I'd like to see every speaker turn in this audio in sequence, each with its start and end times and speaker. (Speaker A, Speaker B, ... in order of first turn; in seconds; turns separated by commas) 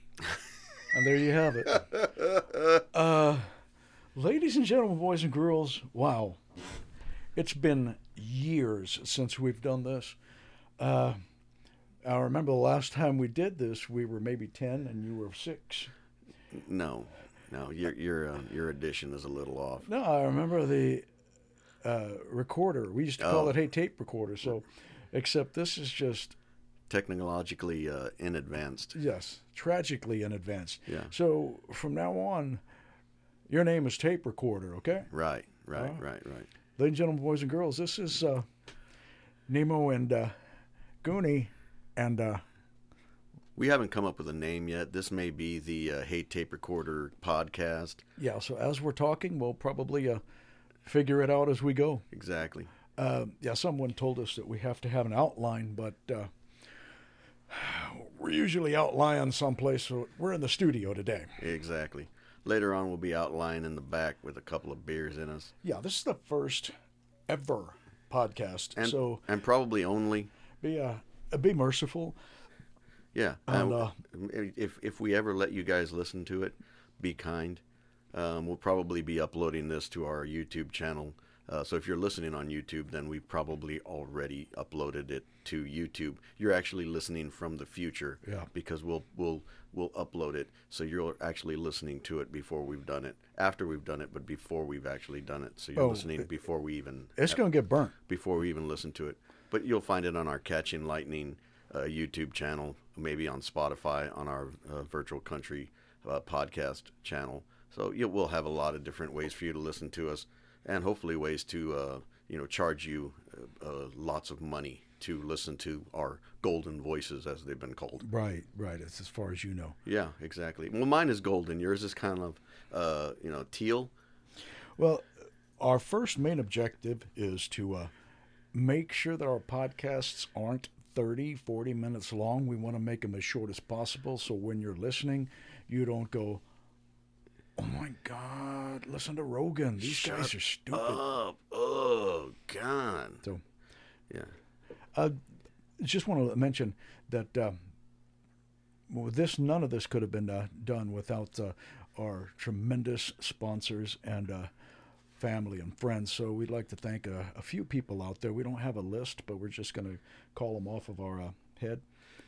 Speaker A: 0.9-1.9, Speaker A: 2.9-3.5, Speaker A: 4.2-6.4, Speaker A: 7.4-10.2, Speaker A: 10.8-11.2, Speaker A: 12.0-15.9, Speaker B: 16.5-19.9, Speaker A: 19.8-21.1, Speaker A: 21.8-26.4, Speaker B: 23.2-23.6, Speaker B: 26.9-29.0, Speaker A: 28.9-32.6, Speaker B: 30.9-31.1, Speaker A: 33.5-35.1, Speaker B: 35.1-36.5, Speaker A: 35.8-36.0, Speaker A: 36.8-38.5, Speaker A: 39.5-40.3, Speaker A: 41.0-42.4, Speaker B: 43.6-48.0, Speaker A: 48.2-50.2, Speaker A: 50.9-52.0, Speaker B: 52.1-52.7, Speaker A: 53.0-56.3, Speaker A: 57.5-61.4, Speaker B: 61.4-65.5, Speaker A: 65.6-66.7, Speaker A: 67.3-69.2, Speaker B: 68.8-70.3, Speaker A: 70.6-72.2, Speaker B: 73.1-77.6, Speaker A: 73.5-74.0, Speaker B: 78.1-97.4, Speaker A: 95.8-96.3, Speaker A: 97.2-97.9, Speaker B: 98.1-118.0, Speaker A: 118.0-119.8, Speaker B: 119.8-123.9, Speaker A: 124.8-125.1, Speaker A: 125.6-127.9, Speaker A: 128.5-136.4, Speaker A: 137.6-141.0, Speaker B: 139.8-143.2, Speaker A: 145.8-147.7, Speaker A: 148.9-154.5, Speaker A: 155.2-161.8